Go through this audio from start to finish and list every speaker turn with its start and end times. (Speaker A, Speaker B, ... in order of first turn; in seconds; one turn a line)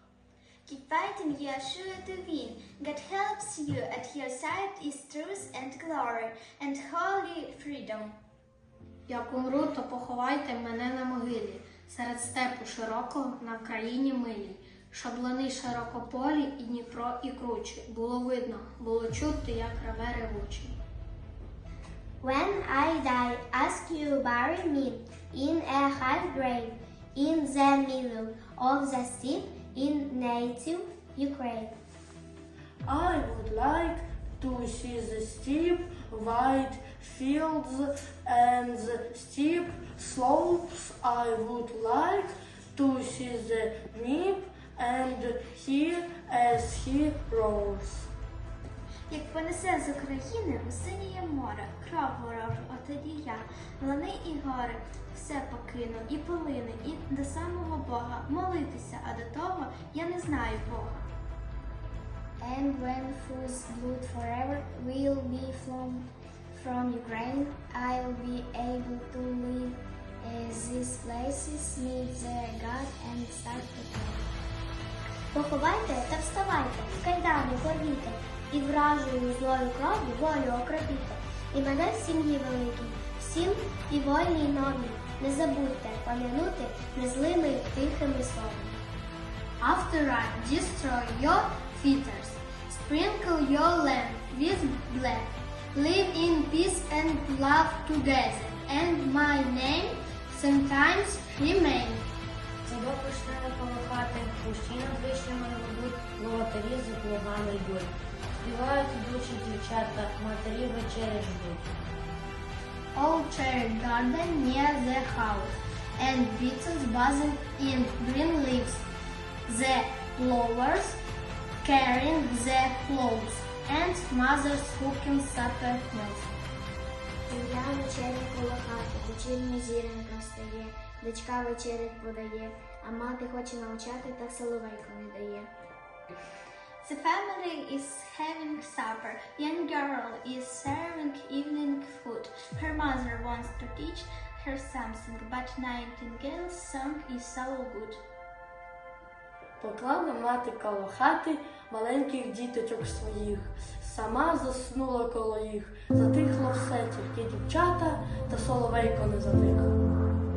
Speaker A: 0.7-8.2
Speaker B: 9.1-20.8
Speaker C: 22.2-31.7
Speaker D: 32.9-48.1
Speaker A: 49.1-61.1
Speaker C: 62.4-74.3
Speaker C: 75.3-88.8
Speaker B: 89.6-102.0
Speaker E: 102.6-111.7
Speaker B: 112.9-118.8
Speaker B: 119.5-121.0
Speaker B: 121.6-126.3
Speaker C: 127.3-135.5
Speaker A: 136.8-148.0
Speaker D: 149.6-159.8